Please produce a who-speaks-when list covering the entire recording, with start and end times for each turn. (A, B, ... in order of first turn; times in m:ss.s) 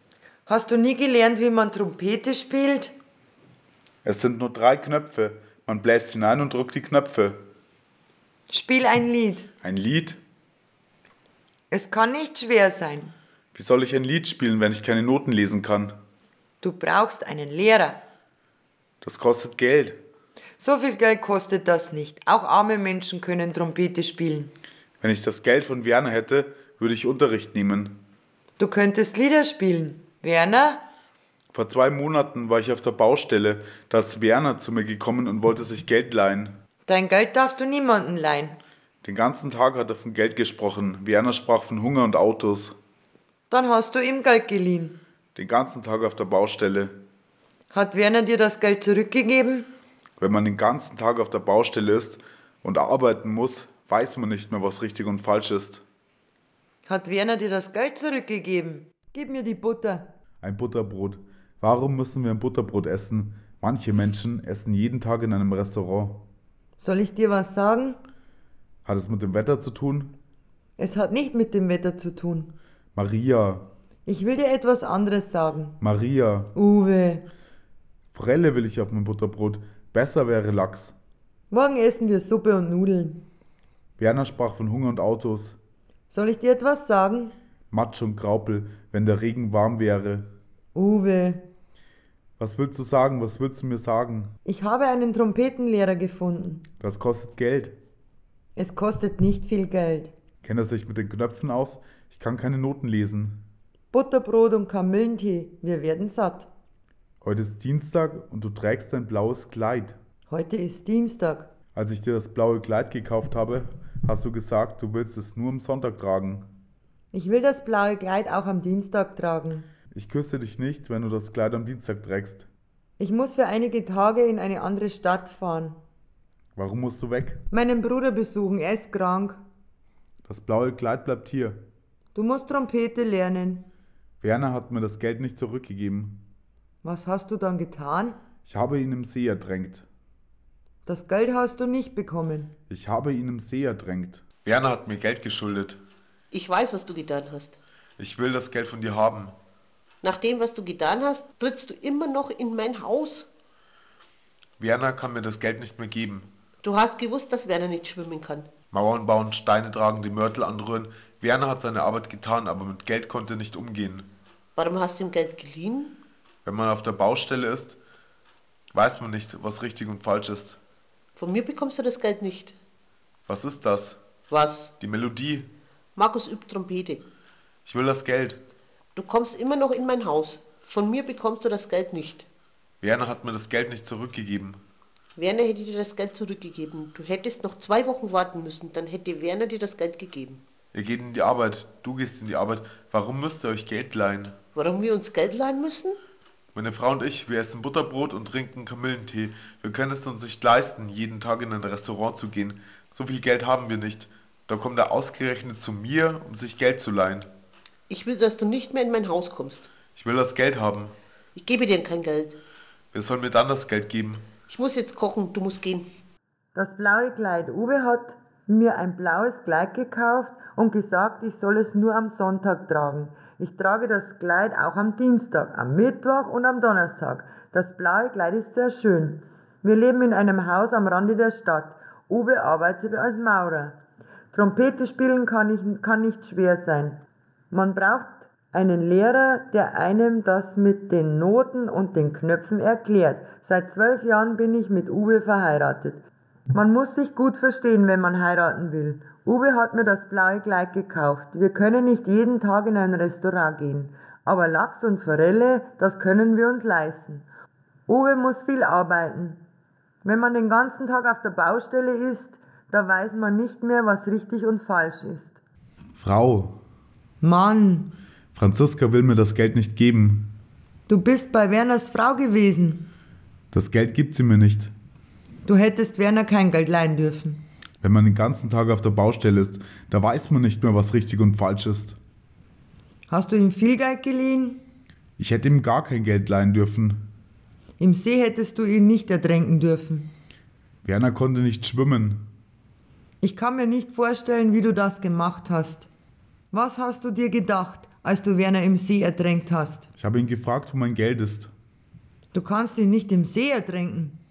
0:00.5-0:02.9 A
0:04.0-0:07.4 B
0:08.5-0:09.5 A
0:09.6-0:10.2 B
0:11.7-0:13.2 A
0:13.5-0:15.9 B
0:16.6-0:18.0 A
0:19.0-0:20.0 B
0:20.6-0:24.5 A
0:25.0-0:28.0 B
0:28.6-0:30.8 A
0:31.5-0:36.5 B
0:36.9-0:38.6 A
0:39.0-0:42.7 B
0:43.5-0:45.0 A
0:45.3-0:46.9 B
0:47.7-0:49.7 A
0:50.2-0:55.8 B
0:56.8-1:00.0 A
1:00.4-1:06.2 B
1:06.8-1:08.0 A
1:08.8-1:10.1 B
1:10.8-1:12.5 A
1:12.9-1:13.7 B
1:14.0-1:15.8 A
1:15.8-1:16.5 B
1:16.5-1:17.2 A
1:18.1-1:20.9 B
1:21.5-1:23.2 A
1:24.0-1:25.6 B
1:26.1-1:27.3 A
1:27.7-1:30.3 B
1:30.7-1:31.4 A
1:32.4-1:34.3 B
1:34.4-1:36.6 A
1:36.8-1:37.7 B
1:38.6-1:40.1 A
1:40.4-1:43.4 B
1:43.9-1:46.5 A
1:47.2-1:50.0 B
1:50.3-1:51.5 A
1:51.7-1:56.4 B
1:57.1-1:59.7 A
1:59.9-2:02.5 B
2:03.0-2:05.8 A
2:06.6-2:07.4 B
2:07.5-2:09.4 A
2:10.2-2:11.6 B
2:12.1-2:13.7 A
2:14.2-2:16.2 B
2:16.8-2:18.2 A
2:18.4-2:19.8 B
2:20.8-2:22.5 A
2:22.7-2:25.8 B
2:26.3-2:27.6 C
2:28.0-2:29.3 B
2:30.0-2:33.3 C
2:34.6-2:36.3 B
2:36.6-2:38.5 C
2:38.7-2:44.1 B
2:44.6-2:45.9 C
2:46.4-2:47.8 B
2:48.7-2:50.6 B
2:51.2-2:52.5 C
2:53.3-2:54.0 B
2:54.3-2:54.7 C
2:54.8-2:55.4 B
2:56.0-2:57.0 C
2:57.6-2:58.4 B
2:59.0-3:02.2 C
3:02.8-3:04.6 B
3:05.2-3:10.4 C
3:10.7-3:14.4 B
3:14.5-3:16.0 C
3:16.5-3:27.3 B
3:27.9-3:29.7 C
3:30.0-3:30.9 B
3:31.4-3:32.4 C
3:32.9-3:34.2 B
3:34.5-3:35.9 C
3:36.5-3:53.8 A
3:54.3-3:57.0 A
3:57.5-4:06.0 A
4:06.5-4:17.2 A
4:17.9-4:19.4 A
4:20.0-4:25.4 A
4:26.0-4:26.6 B
4:27.2-4:27.9 A
4:28.3-4:30.3 B
4:30.9-4:32.9 A
4:33.5-4:34.7 B
4:35.4-4:37.4 A
4:37.8-4:42.0 B
4:43.1-4:44.6 A
4:45.2-4:47.0 B
4:47.8-4:50.1 A
4:50.8-4:52.2 B
4:53.2-4:55.9 A
4:56.5-4:59.9 A
5:00.0-5:01.5 B
5:02.3-5:04.2 A